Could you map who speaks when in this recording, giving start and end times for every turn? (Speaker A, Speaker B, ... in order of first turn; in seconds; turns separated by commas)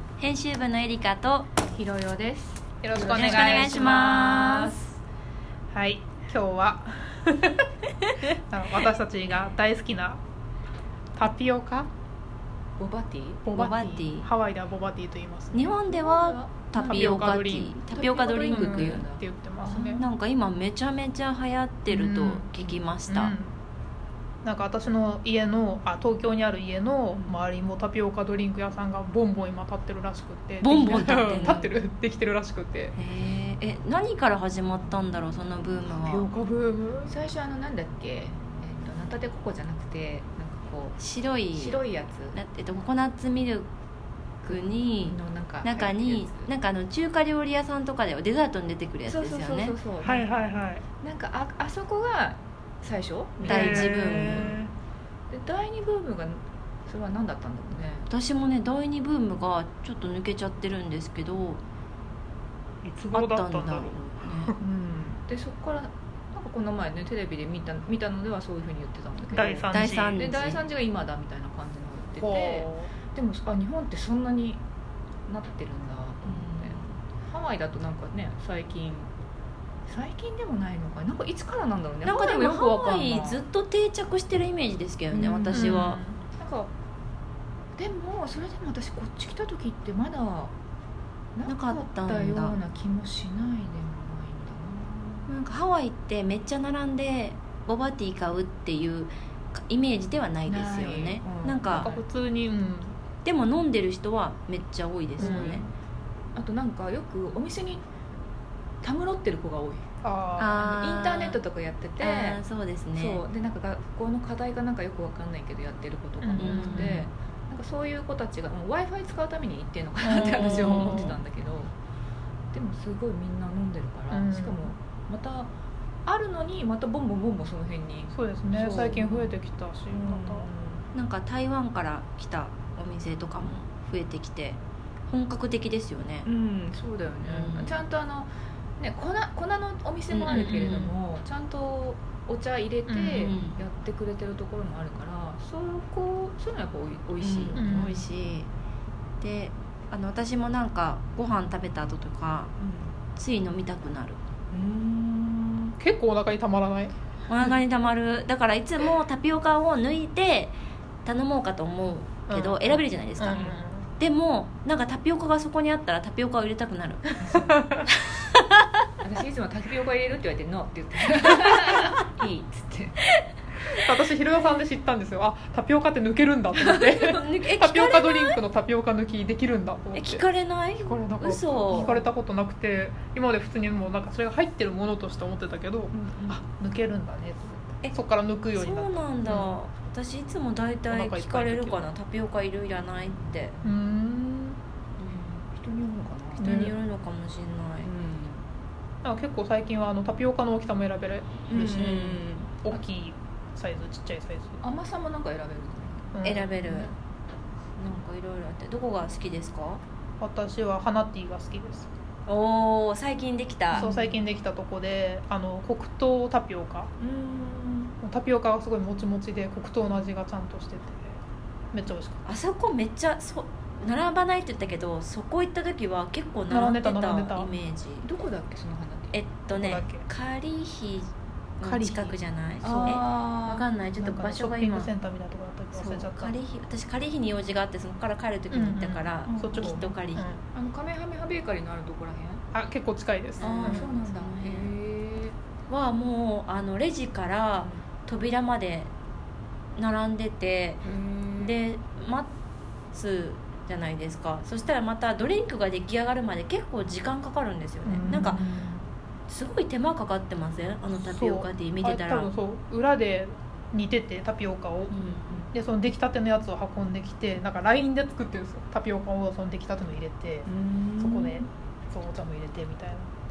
Speaker A: 0.2-1.5, Speaker B: 1.7-4.9, Speaker C: 2.8-4.6, Speaker A: 3.1-4.8, Speaker C: 5.7-7.6, Speaker C: 8.5-10.2, Speaker C: 11.2-11.9, Speaker B: 12.8-14.1, Speaker C: 13.4-15.7, Speaker A: 13.5-14.3, Speaker A: 15.5-19.0, Speaker B: 15.7-20.1, Speaker C: 16.8-17.7, Speaker C: 18.5-20.0, Speaker A: 19.9-23.3, Speaker C: 21.9-23.5, Speaker C: 24.4-32.9, Speaker A: 30.6-31.7, Speaker B: 30.7-31.6, Speaker A: 33.0-36.3, Speaker C: 35.9-37.1, Speaker B: 37.0-41.0, Speaker A: 41.0-43.7, Speaker B: 41.5-42.4, Speaker A: 44.4-49.8, Speaker B: 44.5-46.5, Speaker B: 49.0-50.3, Speaker C: 50.0-50.8, Speaker B: 51.0-54.6, Speaker C: 53.4-54.7, Speaker A: 53.5-54.6, Speaker B: 55.3-58.1, Speaker A: 58.1-61.6, Speaker C: 62.8-64.6, Speaker A: 63.1-64.5, Speaker B: 64.6-74.6, Speaker C: 69.3-70.2, Speaker A: 69.7-70.6, Speaker C: 72.2-72.9, Speaker B: 75.3-79.1, Speaker A: 76.2-77.0, Speaker B: 79.9-83.4, Speaker A: 82.0-86.0, Speaker B: 85.1-85.8, Speaker C: 85.5-86.2, Speaker B: 86.4-86.7, Speaker B: 87.8-90.5, Speaker B: 91.3-95.3, Speaker A: 91.5-92.6, Speaker A: 95.3-101.9, Speaker B: 100.5-102.0, Speaker C: 101.7-103.0, Speaker A: 103.2-105.6, Speaker C: 105.2-105.6, Speaker B: 105.2-105.7, Speaker B: 106.3-107.8, Speaker B: 108.8-109.8, Speaker C: 110.0-110.5, Speaker A: 110.4-111.4, Speaker B: 110.6-112.4, Speaker A: 112.0-113.2, Speaker B: 112.9-121.7, Speaker C: 116.2-117.0, Speaker A: 116.4-117.1, Speaker C: 120.0-121.2, Speaker A: 120.1-121.1, Speaker B: 122.5-125.5, Speaker C: 124.1-124.7, Speaker B: 126.0-129.3, Speaker C: 128.1-130.5, Speaker B: 129.9-130.9, Speaker A: 130.9-136.3, Speaker B: 136.2-147.9, Speaker A: 137.2-137.8, Speaker A: 140.1-140.9, Speaker C: 140.4-140.8, Speaker C: 142.9-143.3, Speaker A: 143.2-143.6, Speaker A: 147.2-148.5, Speaker C: 147.5-148.0, Speaker A: 149.2-152.5, Speaker B: 152.6-152.9, Speaker A: 153.2-154.2, Speaker B: 154.5-155.7, Speaker C: 155.8-156.9, Speaker A: 157.3-167.4, Speaker C: 162.3-163.9, Speaker B: 163.3-163.6, Speaker B: 167.2-167.6, Speaker C: 167.4-167.8, Speaker B: 169.0-173.0, Speaker C: 173.8-180.2, Speaker A: 176.6-178.4, Speaker A: 179.9-182.1, Speaker C: 180.8-189.5, Speaker B: 181.7-182.0, Speaker B: 185.9-186.4, Speaker A: 188.5-193.5, Speaker C: 190.9-191.8, Speaker C: 193.6-194.6, Speaker B: 195.0-196.6, Speaker C: 196.4-196.7, Speaker A: 196.4-197.9, Speaker B: 197.8-198.4, Speaker C: 199.0-204.6, Speaker B: 201.5-202.8, Speaker B: 204.6-206.9, Speaker C: 206.1-206.4, Speaker A: 206.2-206.9, Speaker A: 207.8-209.8, Speaker C: 210.2-211.9, Speaker A: 212.3-213.9, Speaker B: 213.7-214.2, Speaker C: 213.7-216.9, Speaker B: 217.0-217.9, Speaker C: 218.0-221.2, Speaker C: 221.7-222.2, Speaker A: 222.2-228.1, Speaker C: 226.5-227.5, Speaker B: 228.0-229.2, Speaker A: 229.1-234.9, Speaker C: 229.5-230.1, Speaker C: 231.6-232.2, Speaker B: 232.6-233.7, Speaker C: 234.0-236.3, Speaker A: 235.7-240.2, Speaker C: 238.5-240.4, Speaker B: 239.2-239.9, Speaker B: 240.5-242.4, Speaker C: 242.5-243.9, Speaker A: 243.4-244.7, Speaker B: 243.4-245.3, Speaker A: 245.7-248.9, Speaker B: 247.6-247.8, Speaker A: 249.8-250.8, Speaker B: 250.8-251.6, Speaker A: 251.4-252.3, Speaker A: 252.9-258.4, Speaker C: 257.8-258.8, Speaker A: 259.3-262.3, Speaker C: 261.0-264.9, Speaker A: 264.9-265.4, Speaker C: 265.5-273.1, Speaker B: 270.4-271.5